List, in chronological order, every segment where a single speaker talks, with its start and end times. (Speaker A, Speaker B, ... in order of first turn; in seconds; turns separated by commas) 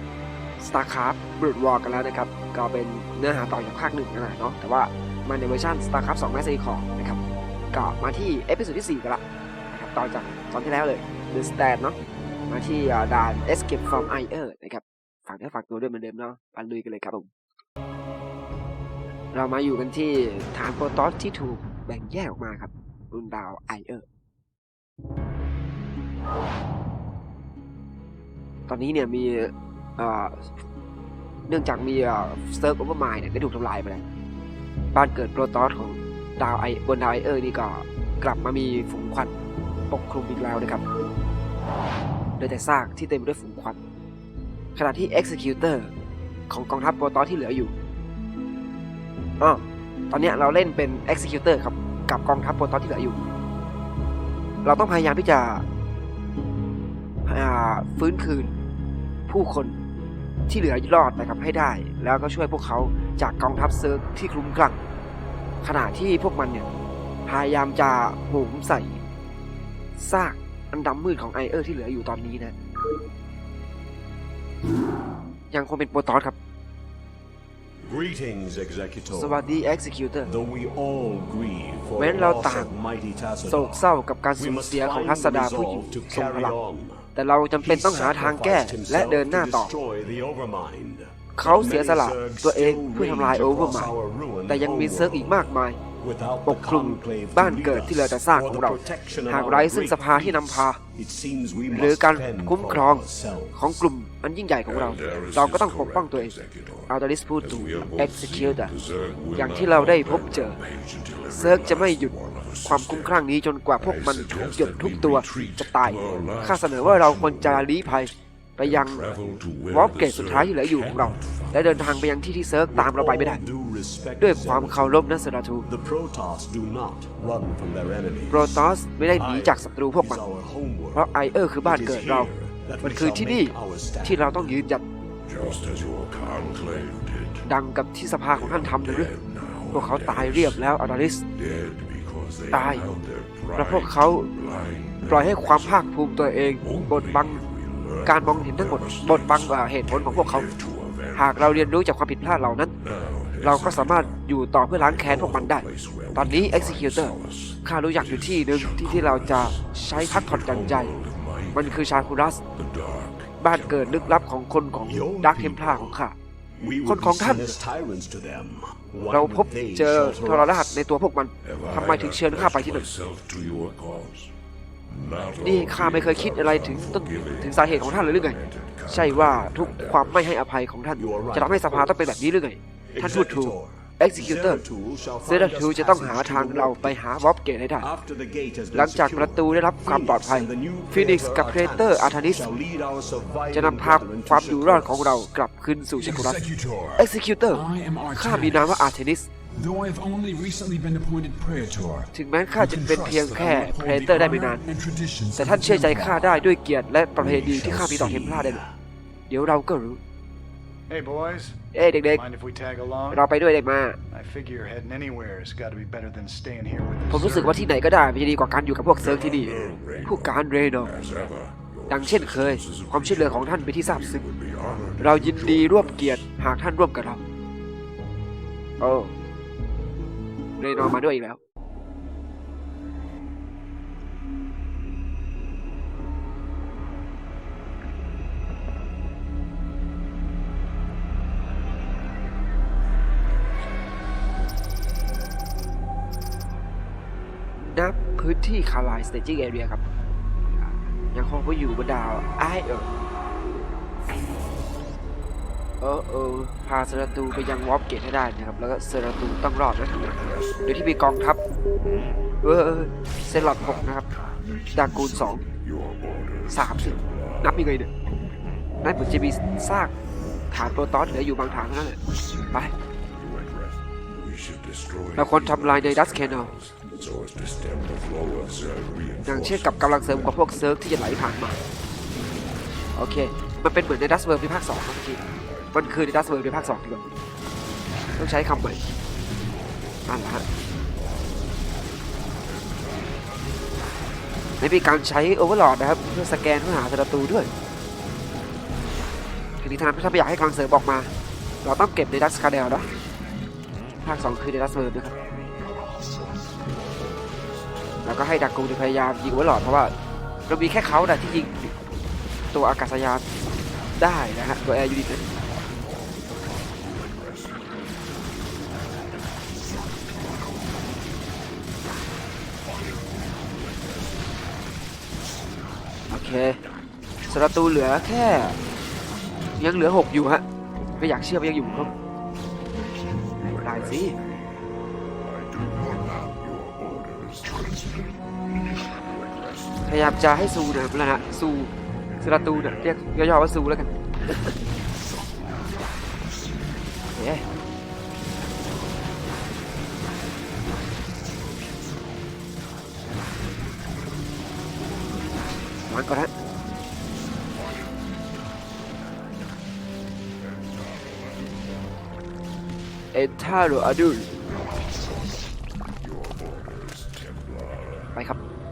Speaker A: 0.6-7.2, Speaker A: 7.7-11.9, Speaker A: 12.5-17.3, Speaker A: 19.3-24.0, Speaker A: 28.7-30.5, Speaker A: 31.5-34.0, Speaker A: 34.9-39.3, Speaker A: 39.9-40.8, Speaker A: 42.4-43.8, Speaker A: 44.8-45.9, Speaker A: 46.5-47.7, Speaker A: 49.4-53.2, Speaker A: 54.6-55.6, Speaker A: 57.2-58.5, Speaker A: 59.3-59.8, Speaker A: 60.5-64.8, Speaker A: 65.6-66.6, Speaker A: 67.2-69.0, Speaker A: 70.0-72.5, Speaker A: 75.5-76.3, Speaker B: 77.8-79.5, Speaker A: 79.1-80.3, Speaker B: 80.2-103.7, Speaker A: 82.0-82.7, Speaker A: 83.5-86.5, Speaker A: 87.1-89.7, Speaker A: 91.3-93.9, Speaker A: 94.5-95.8, Speaker A: 96.4-100.8, Speaker A: 101.7-106.3, Speaker C: 104.9-106.9, Speaker A: 106.9-108.7, Speaker C: 107.4-113.0, Speaker A: 109.3-110.6, Speaker A: 111.3-112.1, Speaker A: 112.6-119.1, Speaker C: 113.8-117.8, Speaker C: 118.7-121.8, Speaker A: 119.7-123.4, Speaker B: 122.7-125.1, Speaker A: 124.2-125.7, Speaker B: 125.6-134.6, Speaker A: 128.3-130.2, Speaker A: 130.9-132.3, Speaker A: 132.8-134.8, Speaker C: 135.2-137.4, Speaker A: 137.4-139.1, Speaker C: 138.5-140.5, Speaker A: 139.7-141.2, Speaker C: 141.3-145.7, Speaker A: 142.5-142.8, Speaker A: 143.6-144.3, Speaker A: 145.1-147.4, Speaker C: 146.6-151.6, Speaker A: 148.0-150.5, Speaker A: 151.1-152.7, Speaker C: 152.8-154.2, Speaker A: 153.4-160.9, Speaker C: 154.8-161.8, Speaker A: 161.5-162.4, Speaker C: 162.5-164.2, Speaker A: 163.4-166.2, Speaker B: 164.8-165.9, Speaker B: 166.6-170.7, Speaker A: 166.8-167.6, Speaker A: 169.1-172.9, Speaker C: 171.4-174.3, Speaker C: 174.9-180.3, Speaker A: 175.4-178.4, Speaker A: 178.9-184.6, Speaker B: 181.0-182.0, Speaker B: 182.9-187.0, Speaker A: 185.2-187.9, Speaker B: 187.8-195.3, Speaker A: 188.7-192.4, Speaker A: 193.5-196.4, Speaker D: 196.0-196.9, Speaker A: 196.9-199.3, Speaker D: 197.5-198.9, Speaker D: 199.5-202.1, Speaker A: 202.1-204.7, Speaker D: 202.6-206.2, Speaker A: 205.3-208.6, Speaker B: 207.2-208.7, Speaker A: 209.3-210.0, Speaker E: 210.9-213.3, Speaker A: 211.7-212.2, Speaker A: 213.1-214.0, Speaker E: 214.1-217.7, Speaker A: 217.1-220.9, Speaker C: 219.0-226.2, Speaker A: 221.9-224.2, Speaker A: 225.0-227.2, Speaker A: 228.8-229.1, Speaker A: 230.6-231.4, Speaker A: 247.6-249.8, Speaker A: 250.5-252.9, Speaker A: 255.8-261.4, Speaker C: 260.1-260.6, Speaker A: 262.4-264.1, Speaker A: 264.7-265.4, Speaker C: 265.4-267.4, Speaker A: 266.5-267.9, Speaker A: 268.8-269.9, Speaker A: 270.5-272.0, Speaker C: 273.1-280.4, Speaker A: 275.1-276.5, Speaker A: 279.2-281.6, Speaker A: 282.9-285.2, Speaker C: 285.4-285.8, Speaker A: 285.7-287.0, Speaker A: 288.1-288.8, Speaker A: 290.1-290.4, Speaker C: 292.6-293.2, Speaker A: 294.6-297.5, Speaker A: 299.6-301.1, Speaker A: 301.6-302.9, Speaker A: 304.0-305.1, Speaker A: 308.0-309.9, Speaker A: 310.5-311.7, Speaker A: 312.5-313.2, Speaker A: 313.9-315.2, Speaker C: 317.0-317.6, Speaker A: 326.1-326.6, Speaker A: 327.3-328.6, Speaker A: 329.6-330.4, Speaker A: 331.0-331.9, Speaker C: 333.3-334.4, Speaker A: 333.6-334.2, Speaker C: 335.3-337.9, Speaker C: 339.1-339.8, Speaker A: 339.8-344.5, Speaker A: 347.1-347.4, Speaker A: 355.9-356.3, Speaker C: 360.9-361.5, Speaker A: 363.1-364.3, Speaker C: 366.0-368.1